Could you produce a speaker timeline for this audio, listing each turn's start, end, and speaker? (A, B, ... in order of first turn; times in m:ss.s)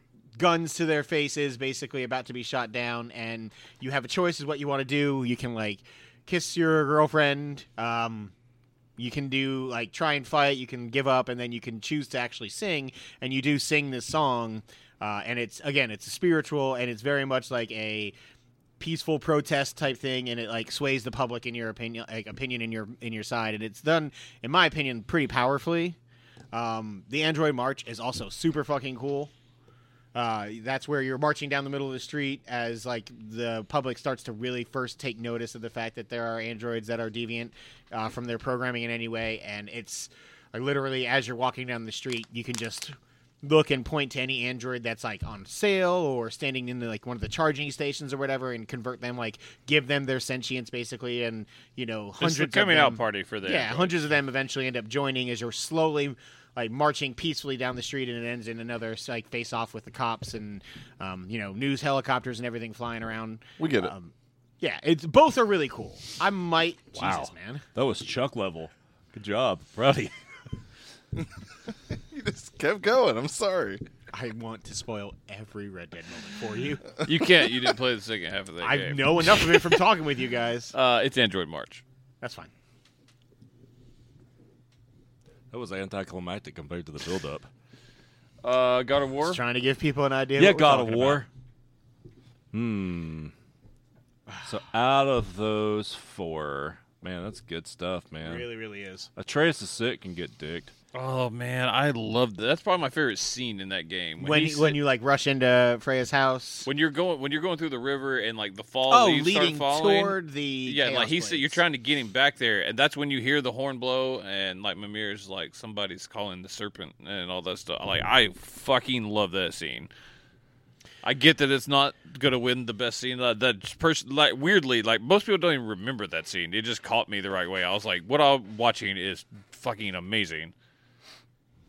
0:00.4-0:08.3 A
0:09.0-0:18.1 A
0:18.8-0:26.0 A
0:26.5-0:29.3 A
0:30.2-1:07.6 A
0:52.2-0:54.1 B
1:03.6-1:03.9 C
1:07.0-1:10.1 D
1:11.9-1:13.8 C
1:14.1-1:16.8 A
1:17.0-1:19.8 B
1:18.6-1:20.7 A
1:20.7-1:21.8 B
1:22.2-1:22.5 A
1:25.5-1:27.5 D
1:28.4-1:29.4 B
1:29.2-1:31.2 A
1:30.4-1:31.3 D
1:32.5-1:33.3 D
1:34.4-1:38.5 D
1:38.2-1:39.1 A
1:39.2-1:40.7 D
1:40.9-1:44.8 B
1:44.2-1:46.7 A
1:46.7-1:59.9 B
1:48.9-1:51.6 A
2:01.0-2:10.5 B